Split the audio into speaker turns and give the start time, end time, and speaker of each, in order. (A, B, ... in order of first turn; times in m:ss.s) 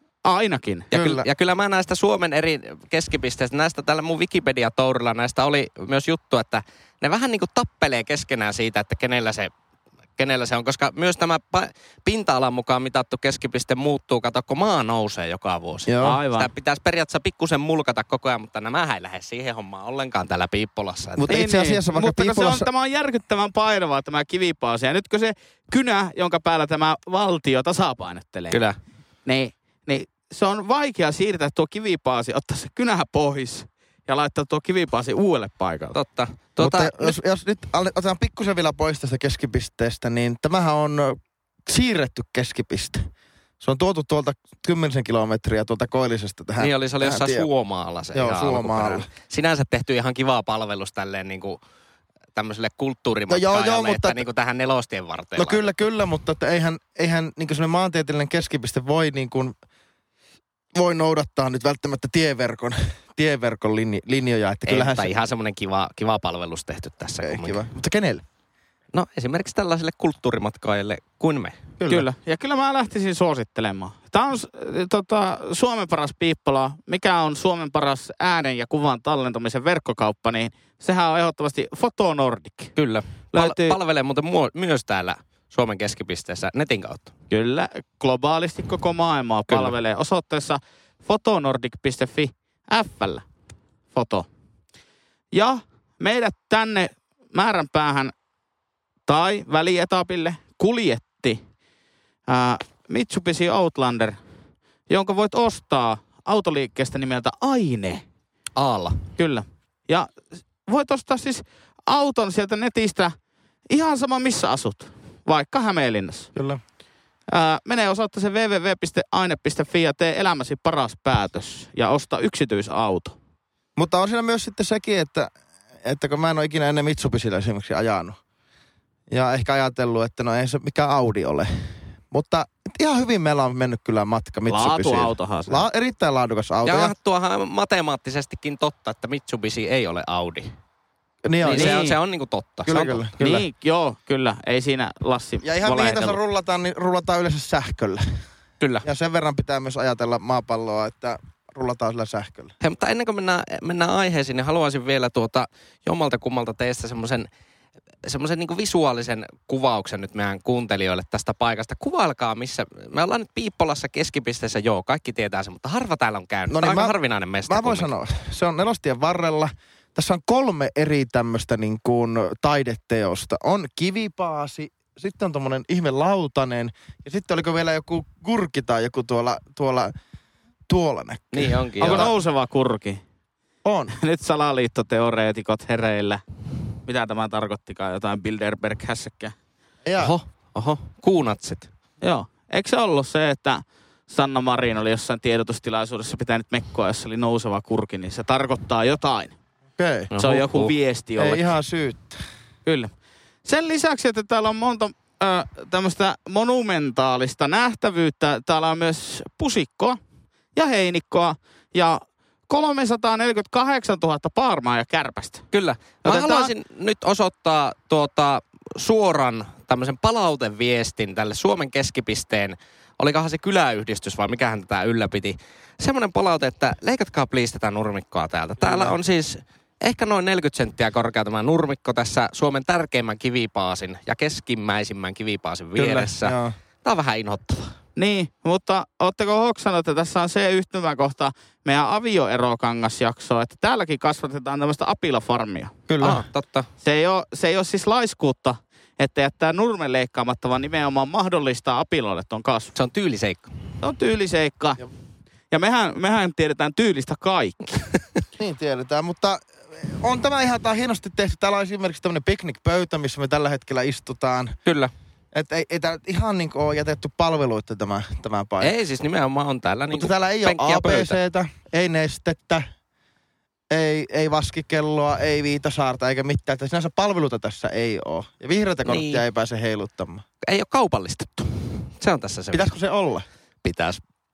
0:00.2-0:00.9 A
0:00.9-0:01.3 B
0:00.9-0:09.5 C
0:10.2-0:21.4 C
0:15.8-0:16.2 B
0:16.0-0:16.5 A
0:21.2-0:22.7 B
0:21.3-0:28.6 A
0:28.5-0:28.8 C
0:29.2-0:36.0 A
0:35.9-0:37.2 C
0:36.6-0:43.1 B
0:43.6-0:47.5 B
0:46.6-0:51.6 C
0:48.1-0:49.1 B
0:52.3-0:55.7 C
0:53.3-0:54.2 B
0:55.4-0:59.5 B
1:00.7-1:05.1 B
1:04.7-1:07.6 C
1:07.2-1:08.2 B
1:08.9-1:11.6 C
1:11.8-1:12.1 B
1:11.9-1:22.7 A
1:22.8-1:27.1 C
1:23.3-1:23.8 A
1:27.3-1:33.2 A
1:29.5-1:29.7 C
1:33.9-1:34.3 A
1:35.3-1:38.1 A
1:39.1-1:41.4 A
1:42.3-1:44.2 A
1:44.9-1:48.0 A
1:48.6-1:49.0 C
1:49.2-1:53.1 A
1:53.7-1:56.3 A
1:56.3-1:56.6 B
1:57.3-2:03.2 A
2:03.8-2:05.3 B
2:05.8-2:08.2 B
2:09.1-2:11.5 B
2:12.1-2:16.9 B
2:14.5-2:15.6 A
2:16.6-2:20.5 C
2:21.2-2:21.8 B
2:21.4-2:23.0 C
2:21.5-2:22.0 A
2:22.6-2:23.4 B
2:23.2-2:26.2 A
2:25.4-2:28.2 B
2:28.6-2:28.8 C
2:28.8-2:32.5 B
2:32.6-2:37.3 C
2:38.0-2:47.9 C
2:46.5-2:46.9 B
2:47.5-2:59.9 B
3:00.7-3:02.1 B
3:01.3-3:02.1 C
3:01.8-3:03.0 A
3:03.6-3:03.9 B
3:03.9-3:06.2 A
3:06.8-3:09.3 A
3:09.8-3:10.1 B
3:10.0-3:11.7 C
3:12.0-3:19.3 A
3:19.8-3:20.1 B
3:20.1-3:20.7 C
3:20.2-3:21.5 A
3:21.2-3:22.2 B
3:22.6-3:22.9 A
3:23.4-3:30.0 A
3:30.5-3:35.5 A
3:35.5-3:57.8 C
3:36.0-3:36.5 A
3:48.6-3:49.0 B
3:55.8-3:56.5 B
3:58.0-4:05.7 A
4:05.9-4:06.2 B
4:06.0-4:06.7 C
4:06.8-4:12.7 A
4:12.7-4:13.5 C
4:13.8-4:14.8 A
4:15.5-4:17.9 A
4:18.4-4:24.6 B
4:24.6-4:24.9 C
4:25.3-4:28.7 B
4:28.6-4:31.2 C
4:29.9-4:32.7 B
4:33.7-4:40.2 B
4:38.8-4:39.2 C
4:40.4-4:42.8 C
4:42.5-4:43.2 B
4:43.6-4:44.0 C